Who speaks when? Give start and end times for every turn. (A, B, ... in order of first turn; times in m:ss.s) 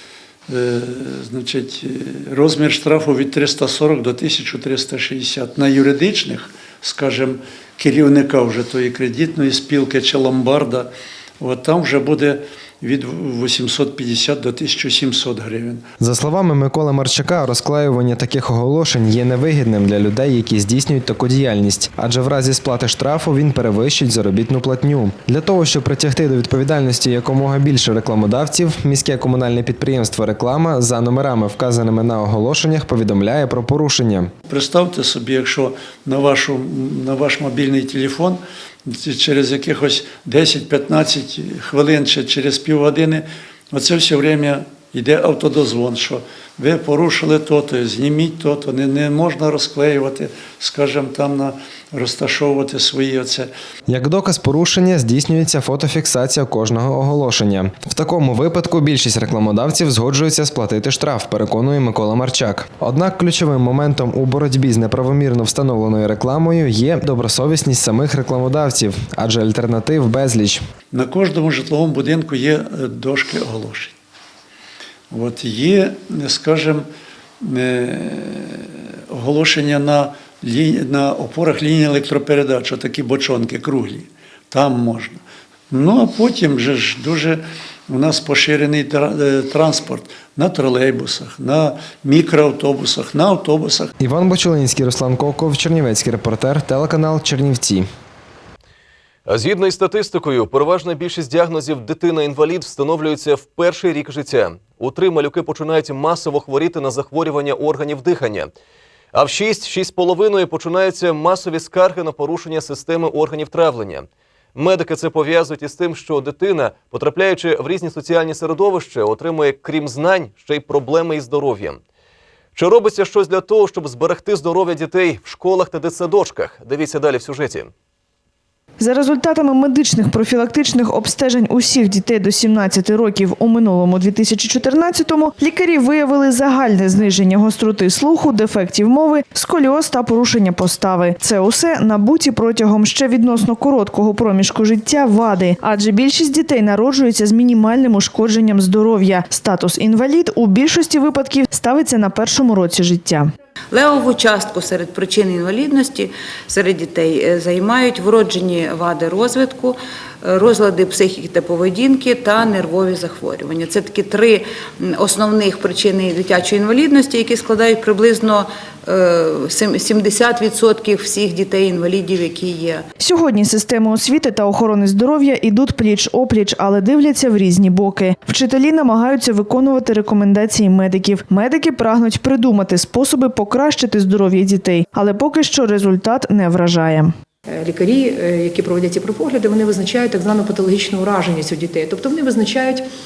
0:00.5-0:15.8 A
0:16.0-0:34.3 B
0:34.5-0:53.5 A
0:53.9-1:10.6 B
1:10.9-1:13.9 A
1:15.1-1:16.8 A
1:17.4-1:25.2 A
1:25.7-1:33.9 A
1:34.0-1:37.8 B
1:39.3-1:48.5 C
1:49.1-2:01.8 C
2:02.5-2:07.7 C
2:08.8-2:33.3 D
2:33.7-2:39.7 E
2:40.2-2:52.8 E
2:53.0-3:07.1 D
3:07.5-3:12.9 F